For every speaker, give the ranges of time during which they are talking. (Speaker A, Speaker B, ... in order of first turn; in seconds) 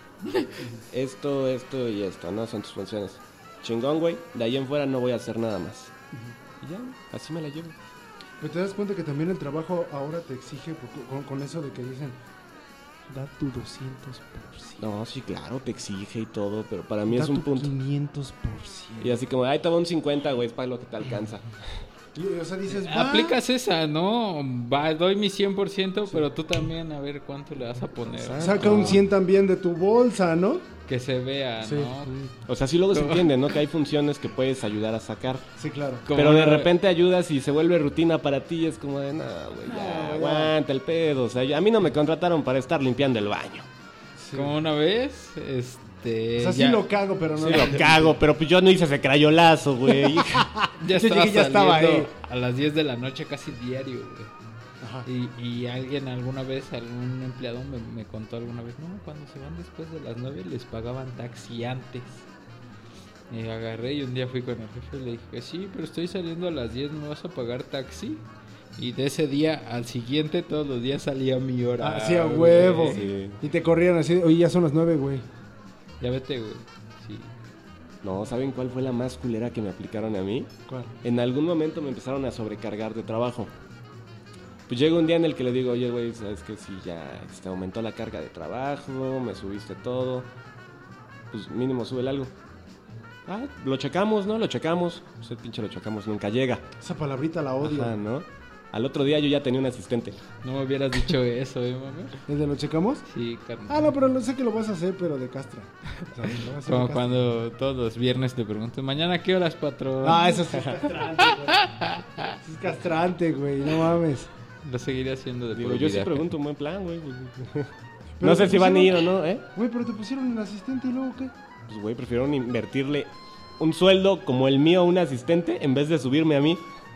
Speaker A: 0.9-5.9, 6.6-7.8, 14.8-17.7, 19.0-21.7, 28.2-29.0, 32.5-35.5, 36.1-43.7, 47.4-50.5, 72.8-73.4, 78.0-80.5, 81.0-83.5, 84.7-90.3, 91.3-92.3, 93.3-96.7, 97.6-100.2, 115.6-119.5, 121.7-126.6
Speaker B: 8.4-12.2, 13.1-14.9, 17.1-19.2, 22.1-23.4, 28.4-30.7, 31.6-32.3, 35.6-36.1, 39.7-40.5, 44.2-44.5, 46.4-48.2, 49.9-52.1, 54.8-55.1, 71.8-75.3, 80.7-80.9, 96.8-98.0, 102.3-103.1, 103.7-107.2, 110.0-111.7, 112.4-114.3, 118.2-121.3
Speaker C: 22.7-28.8, 30.9-32.1, 32.9-33.4, 36.1-36.7, 44.3-46.8, 50.8-54.3, 55.1-62.3, 63.3-68.2, 68.8-73.1, 76.0-77.3, 100.4-102.2, 103.1-103.9, 106.6-110.5, 111.5-112.1, 114.6-116.3